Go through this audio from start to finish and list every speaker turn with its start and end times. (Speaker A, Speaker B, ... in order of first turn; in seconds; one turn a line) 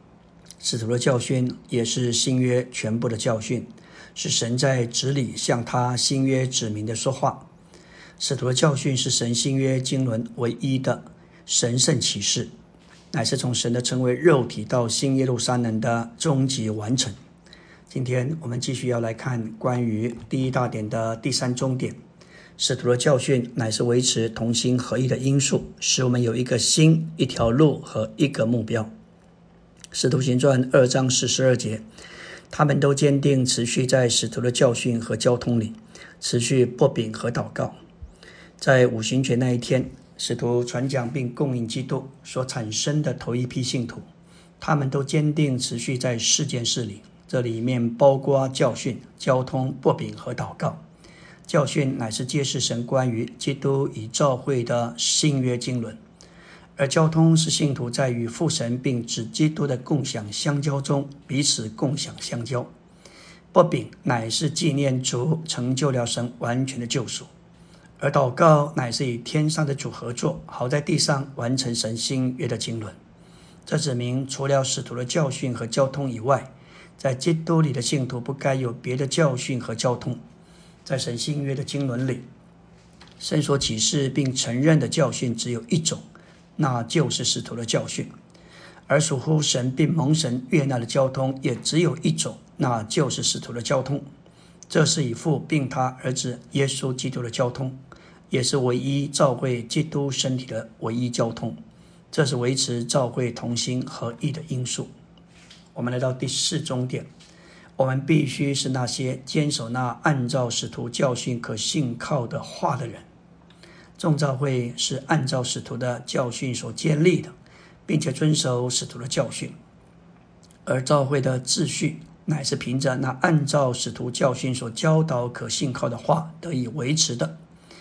Speaker A: 0.6-7.5
Speaker A: 8.2-12.5
Speaker A: 13.1-17.1
Speaker A: 17.9-22.0
Speaker A: 22.6-28.9
Speaker A: 29.9-31.8
Speaker A: 32.5-37.8
Speaker A: 38.6-44.0
Speaker A: 44.6-50.8
Speaker A: 51.5-56.0
Speaker A: 56.8-62.7
Speaker A: 63.5-67.3
Speaker A: 68.0-73.0
Speaker A: 73.7-80.2
Speaker A: 80.8-82.3
Speaker A: 83.2-86.0
Speaker A: 86.6-88.1
Speaker A: 88.9-94.0
Speaker A: 94.7-97.8
Speaker A: 98.3-101.6
Speaker A: 102.1-104.9
Speaker A: 105.7-107.1
Speaker A: 107.8-113.1
Speaker A: 114.0-117.3
Speaker A: 117.9-119.5
Speaker A: 120.7-127.4